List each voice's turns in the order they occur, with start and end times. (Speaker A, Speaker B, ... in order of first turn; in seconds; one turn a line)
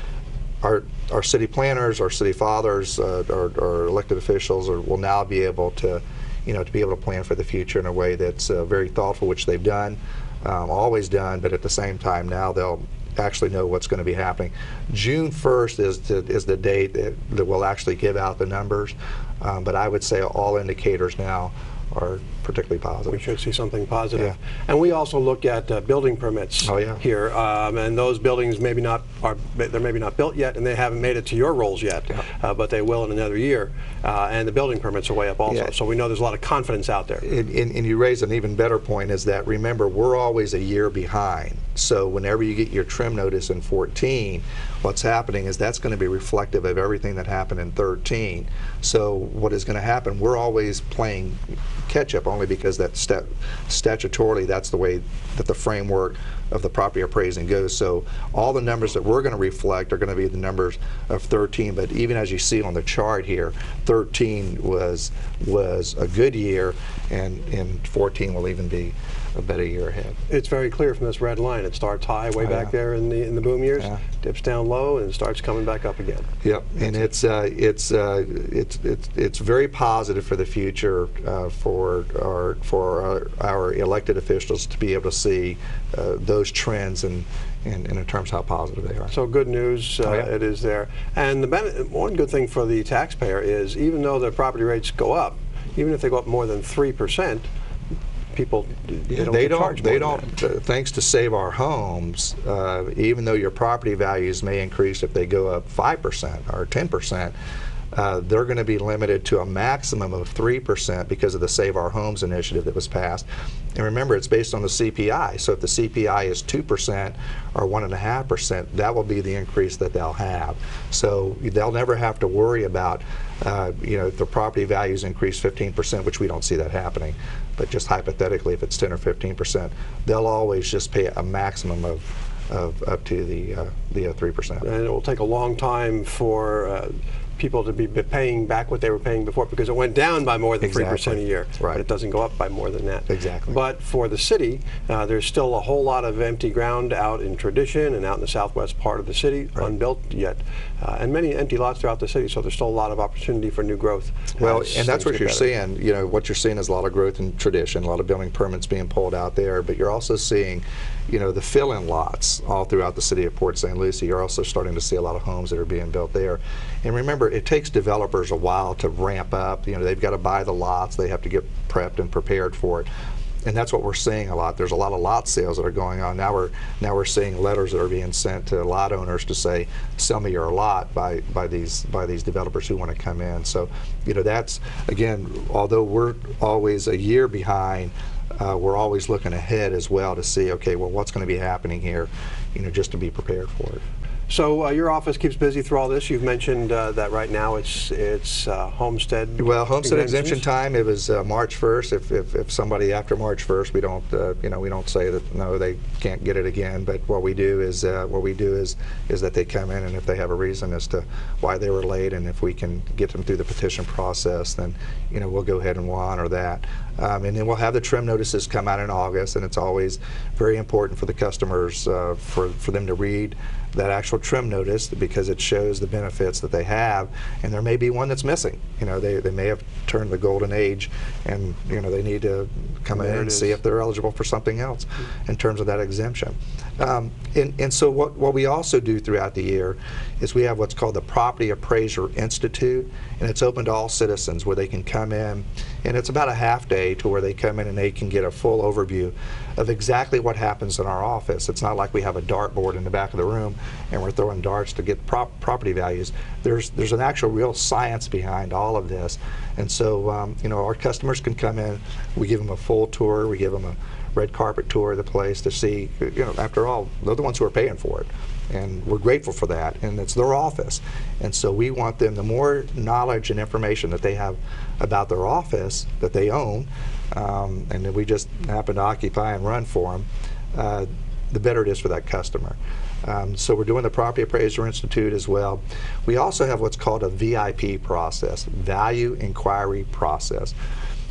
Speaker A: 0.6-23.2
Speaker B: 23.1-37.3
Speaker A: 26.6-27.0
Speaker A: 37.2-70.2
Speaker B: 70.3-76.3
Speaker A: 72.4-72.7
Speaker A: 76.4-89.1
Speaker B: 89.1-97.5
Speaker B: 98.3-100.3
Speaker A: 99.1-107.3
Speaker A: 107.9-134.7
Speaker B: 134.6-155.5
Speaker A: 140.6-141.8
Speaker A: 143.1-143.6
Speaker A: 154.4-172.9
Speaker A: 173.4-193.8
Speaker B: 194.3-200.4
Speaker A: 199.4-290.6
Speaker B: 232.9-233.6